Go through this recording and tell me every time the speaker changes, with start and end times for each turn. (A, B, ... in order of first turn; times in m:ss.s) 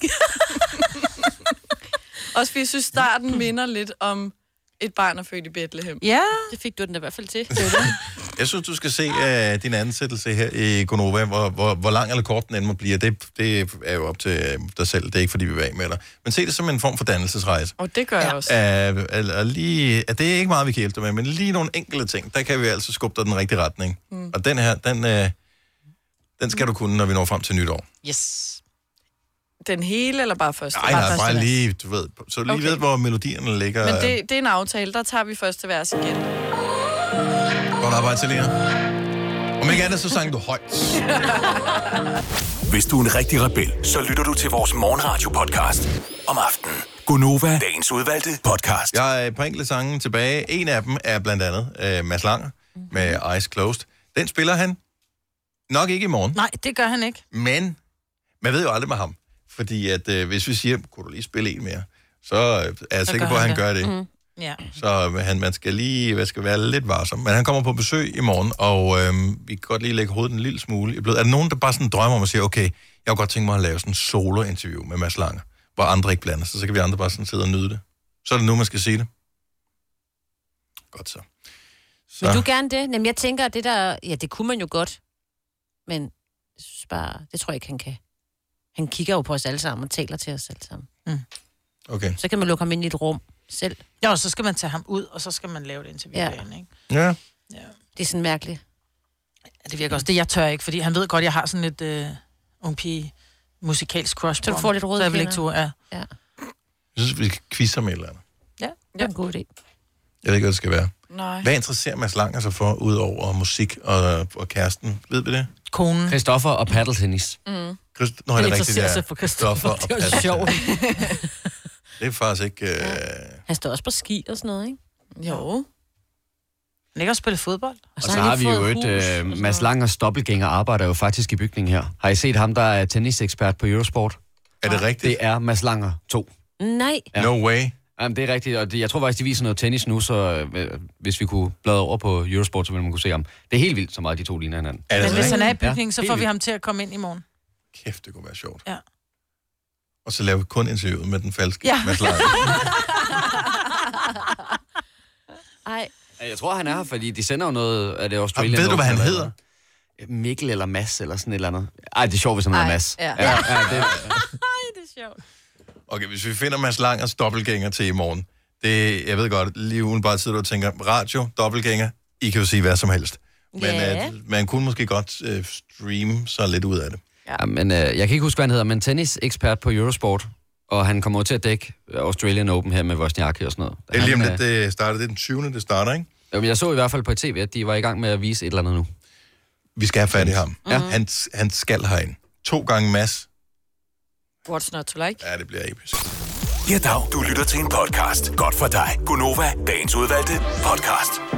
0:02.3-0:06.0 A
0:06.0-0:06.5 B
0:06.5-0:07.6 C
0:07.5-0:07.9 B
0:08.3-0:25.3 D
0:17.8-0:18.6 A
0:26.4-0:27.8 D
0:28.0-0:28.6 B
0:29.6-0:31.5 A
0:30.7-0:34.2 D
0:30.9-0:31.2 B
0:32.5-0:32.8 A
0:33.8-0:36.3 A
0:37.8-0:38.6 D
0:39.6-0:41.1 D
0:41.0-0:42.0 A
0:42.7-0:49.0 E
0:48.9-0:54.8 D
0:55.7-0:56.4 D
0:56.3-0:57.2 B
0:57.3-0:57.8 D
0:58.4-1:03.9 D
1:03.1-1:03.6 B
1:04.8-1:19.1 D
1:20.9-1:21.3 D
1:22.1-1:22.4 D
1:22.2-1:25.0 C
1:25.9-1:28.0 C
1:28.7-1:30.9 C
1:31.9-1:32.2 D
1:32.2-1:33.8 C
1:34.0-1:36.7 B
1:36.1-1:36.4 C
1:36.9-1:37.2 D
1:38.0-1:38.6 C
1:39.6-1:45.7 B
1:44.4-1:46.1 C
1:46.9-1:48.2 D
1:49.0-1:49.5 C
1:50.2-1:55.5 D
1:51.1-1:51.5 A
1:55.7-1:56.2 B
1:56.1-1:57.4 F
1:57.4-1:57.8 A
1:57.9-2:00.6 D
2:00.0-2:00.4 C
2:00.6-2:01.1 A
2:02.0-2:03.4 D
2:02.8-2:04.8 C
2:05.2-2:05.6 A
2:06.9-2:07.8 B
2:08.0-2:09.7 C
2:08.0-2:16.3 F
2:14.6-2:15.2 D
2:16.6-2:17.1 C
2:17.1-2:17.7 D
2:18.0-2:26.3 F
2:24.9-2:25.4 D
2:25.0-2:27.2 B
2:27.7-2:28.6 D
2:30.0-2:32.7 D
2:31.6-2:32.6 B
2:35.6-2:35.9 C
2:36.2-2:39.3 F
2:38.3-2:39.3 D
2:40.0-2:44.2 F
2:42.5-2:43.3 A
2:43.2-2:44.1 D
2:44.6-2:45.1 C
2:45.9-2:57.0 D
2:53.5-2:54.1 C
2:57.4-3:04.4 F
3:03.9-3:06.1 D
3:06.3-3:08.9 F
3:09.8-3:13.3 D
3:10.1-3:10.9 F
3:10.7-3:11.0 C
3:14.4-3:15.2 A
3:15.2-3:16.0 D
3:16.6-3:21.2 E